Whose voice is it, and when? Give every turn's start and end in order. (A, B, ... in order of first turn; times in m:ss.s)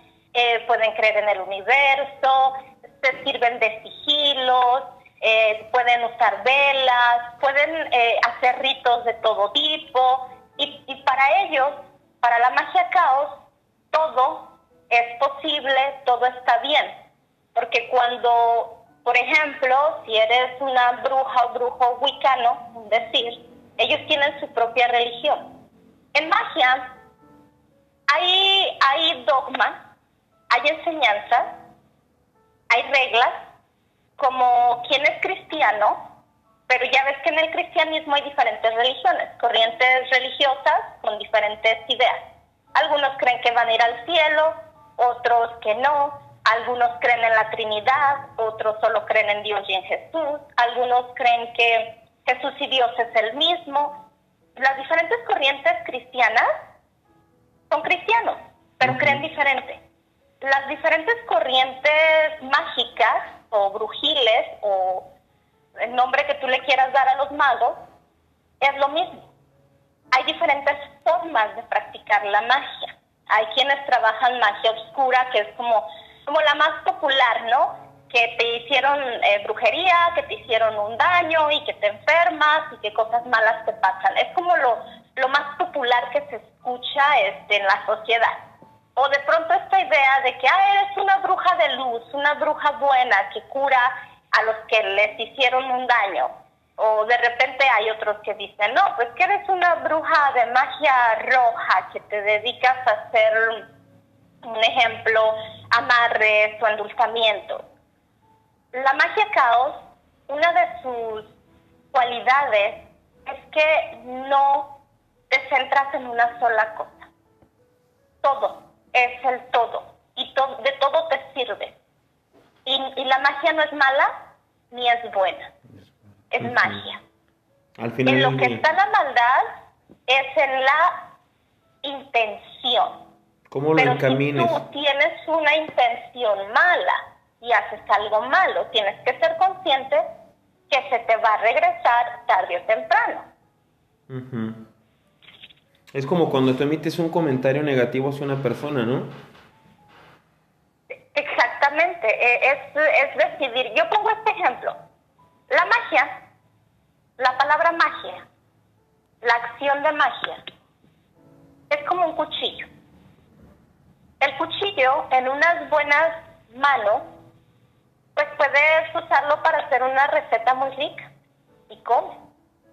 0:00.3-0:13.4 A
0:13.9-0:17.0 A
0:17.5-0:25.4 A
0:26.1-0:26.9 A
0:28.1-0:29.8 A
0:30.5-0:31.5 A
0:32.7-0:33.4 A
0:34.2-0:36.0 A
0:36.7-0:42.2 A
0:42.7-0:54.0 A
0:54.6-0:56.5 A
0:57.7-0:59.8 A
0:58.8-0:59.2 B
1:00.4-1:05.1 A
1:05.8-1:07.8 A
1:08.6-1:09.2 A
1:10.1-1:28.4 A
1:29.0-1:43.6 A
1:44.4-1:47.6 A
1:48.7-1:51.3 A
1:51.9-1:54.7 A
1:55.3-1:57.1 A
1:58.2-2:01.8 A
2:02.6-2:04.1 A
2:04.7-2:05.5 A
2:06.3-2:07.0 A
2:06.4-2:06.8 B
2:07.8-2:08.6 B
2:08.0-2:09.5 A
2:10.1-2:11.1 A
2:11.8-2:13.0 A
2:13.5-2:14.6 B
2:13.8-2:20.0 A
2:20.7-2:23.3 A
2:24.1-2:24.7 B
2:25.9-2:29.1 B
2:31.1-2:34.8 A
2:35.5-2:36.1 A
2:37.2-2:38.2 A
2:39.2-2:40.4 A
2:41.7-2:42.7 A
2:44.2-2:47.0 A
2:48.1-2:51.1 A
2:51.7-2:52.2 A